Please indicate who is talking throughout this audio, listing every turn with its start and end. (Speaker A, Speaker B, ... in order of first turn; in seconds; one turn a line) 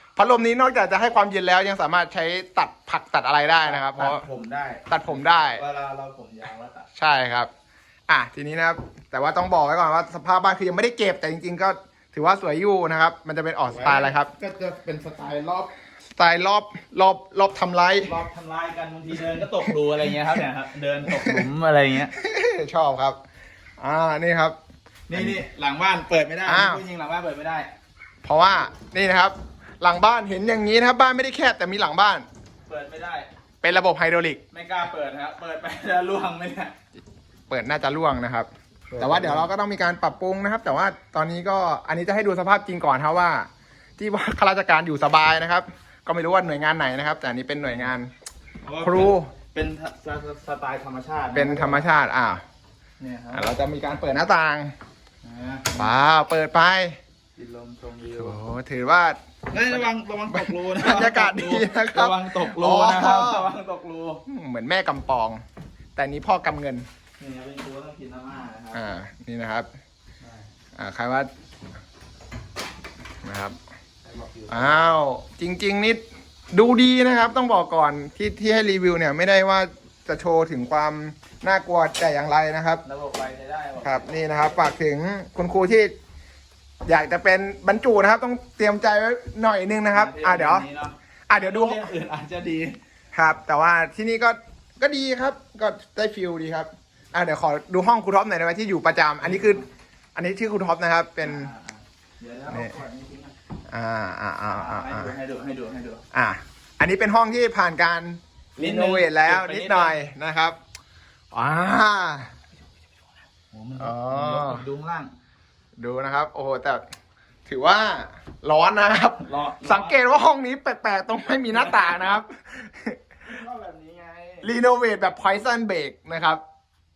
Speaker A: 0.1-4.2
Speaker B: 3.6-6.9
Speaker A: 4.9-5.6
Speaker A: 6.9-7.5
Speaker A: 8.1-14.3
Speaker B: 13.7-15.7
Speaker A: 16.1-18.1
Speaker B: 18.0-22.1
Speaker A: 21.1-21.4
Speaker A: 22.1-23.2
Speaker A: 23.8-24.6
Speaker B: 25.1-27.7
Speaker A: 25.1-25.4
Speaker A: 26.4-26.8
Speaker A: 28.2-32.2
Speaker B: 32.7-33.3
Speaker A: 33.6-34.4
Speaker B: 34.5-36.7
Speaker A: 37.5-48.1
Speaker B: 38.9-39.5
Speaker B: 48.6-51.9
Speaker A: 48.8-49.3
Speaker A: 51.3-52.4
Speaker B: 53.0-53.5
Speaker A: 53.3-54.7
Speaker B: 55.2-55.9
Speaker A: 55.7-57.0
Speaker B: 57.4-58.4
Speaker A: 58.1-63.5
Speaker B: 59.5-64.2
Speaker A: 64.3-65.4
Speaker A: 66.0-66.9
Speaker B: 67.2-68.8
Speaker A: 68.7-69.7
Speaker B: 70.2-70.5
Speaker A: 70.8-71.3
Speaker A: 73.2-73.5
Speaker B: 74.0-74.8
Speaker A: 74.5-82.8
Speaker B: 82.8-84.2
Speaker A: 83.8-85.9
Speaker A: 86.8-90.7
Speaker B: 89.9-92.8
Speaker A: 91.3-91.9
Speaker A: 93.1-99.6
Speaker B: 99.2-99.7
Speaker A: 100.2-101.5
Speaker B: 101.2-103.3
Speaker A: 102.5-102.8
Speaker A: 103.7-105.1
Speaker B: 104.5-106.0
Speaker A: 106.1-110.6
Speaker B: 108.6-110.0
Speaker A: 111.3-112.3
Speaker B: 113.5-115.1
Speaker A: 113.8-114.6
Speaker A: 115.8-116.8
Speaker A: 117.5-123.0
Speaker B: 119.2-120.0
Speaker B: 121.5-122.2
Speaker B: 123.2-124.5
Speaker A: 124.4-126.4